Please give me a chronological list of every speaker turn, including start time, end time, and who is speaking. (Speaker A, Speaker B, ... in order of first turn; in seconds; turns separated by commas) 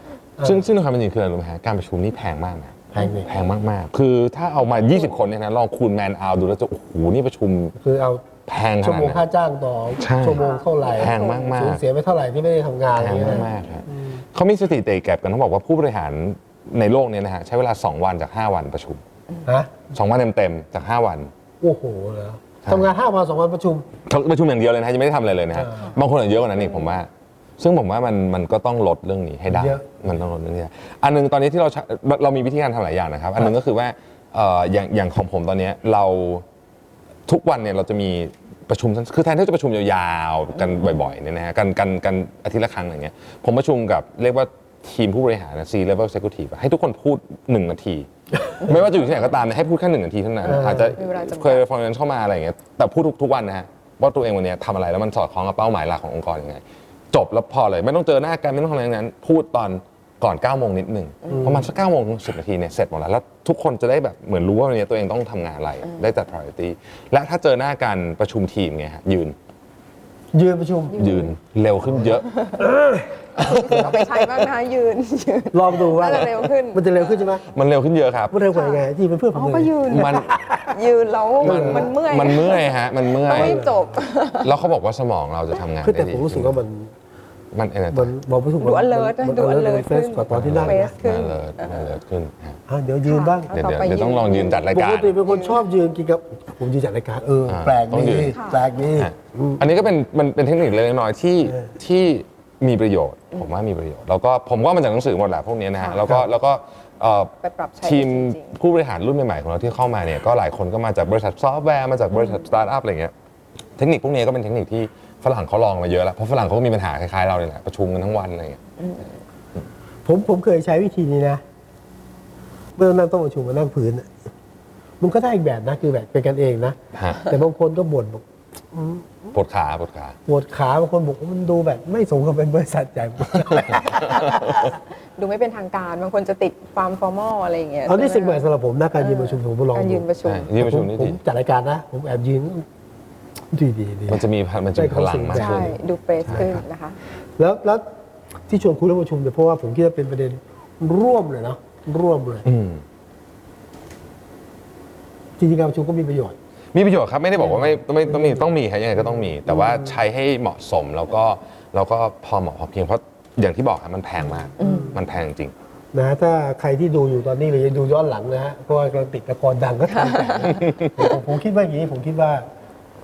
Speaker A: 0.4-0.6, Speaker B: 0.4-7.7, Speaker A: 2.9-3.3, Speaker A: 7.8-8.2, Speaker B: 8.5-9.2, Speaker A: 8.8-14.2, Speaker B: 10.0-11.8, Speaker C: 10.3-11.6, Speaker B: 13.0-19.0, Speaker C: 13.3-13.7, Speaker A: 19.4-19.8, Speaker B: 19.9-21.3, Speaker A: 21.6-23.9, Speaker B: 22.6-22.9, Speaker B: 24.1-36.4, Speaker A: 25.6-25.9, Speaker A: 29.5-29.9, Speaker B: 37.3-48.1, Speaker B: 48.6-69.3, Speaker C: 50.5-51.6, Speaker A: 50.5-50.9, Speaker A: 61.3-61.7, Speaker A: 70.3-71.2, Speaker C: 70.9-71.3, Speaker B: 71.0-72.3, Speaker A: 71.9-74.1, Speaker C: 72.3-72.6, Speaker B: 73.4-74.0, Speaker C: 73.4-76.8, Speaker A: 75.5-77.4, Speaker B: 77.5-78.3, Speaker A: 78.3-80.8, Speaker C: 78.5-84.5, Speaker B: 79.9-80.3, Speaker B: 81.4-83.6, Speaker A: 81.4-81.9, Speaker A: 83.3-83.9, Speaker B: 84.4-86.6, Speaker A: 85.8-86.9, Speaker B: 87.5-88.1, Speaker A: 87.9-90.9, Speaker C: 88.6-91.9, Speaker B: 90.3-92.6, Speaker A: 92.7-93.5, Speaker C: 93.0-94.6, Speaker B: 93.5-95.2, Speaker A: 94.7-99.6, Speaker C: 95.3-95.6, Speaker B: 97.5-98.4, Speaker C: 98.3-98.6, Speaker B: 98.9-113.1, Speaker A: 101.5-101.7, Speaker C: 105.8-106.0, Speaker C: 107.4-108.5, Speaker B: 113.8-118.6, Speaker A: 120.0-121.4, Speaker A: 122.8-124.1, Speaker A: 125.0-129.3, Speaker B: 126.9-127.3, Speaker B: 129.3-130.2, Speaker A: 130.2-134.8, Speaker B: 133.4-134.5, Speaker C: 135.2-138.4, Speaker A: 137.9-142.7, Speaker C: 139.0-140.5, Speaker B: 140.2-141.2, Speaker A: 143.5-144.2, Speaker B: 144.1-145.8, Speaker A: 144.7-146.6, Speaker C: 145.3-147.0, Speaker A: 147.4-147.8, Speaker A: 148.5-152.5, Speaker B: 152.4-152.8, Speaker A: 155.4-156.3, Speaker B: 156.7-165.5, Speaker A: 157.5-158.4, Speaker A: 159.5-159.9, Speaker C: 164.6-164.9, Speaker A: 164.6-165.0, Speaker A: 165.9-172.4, Speaker C: 169.9-170.6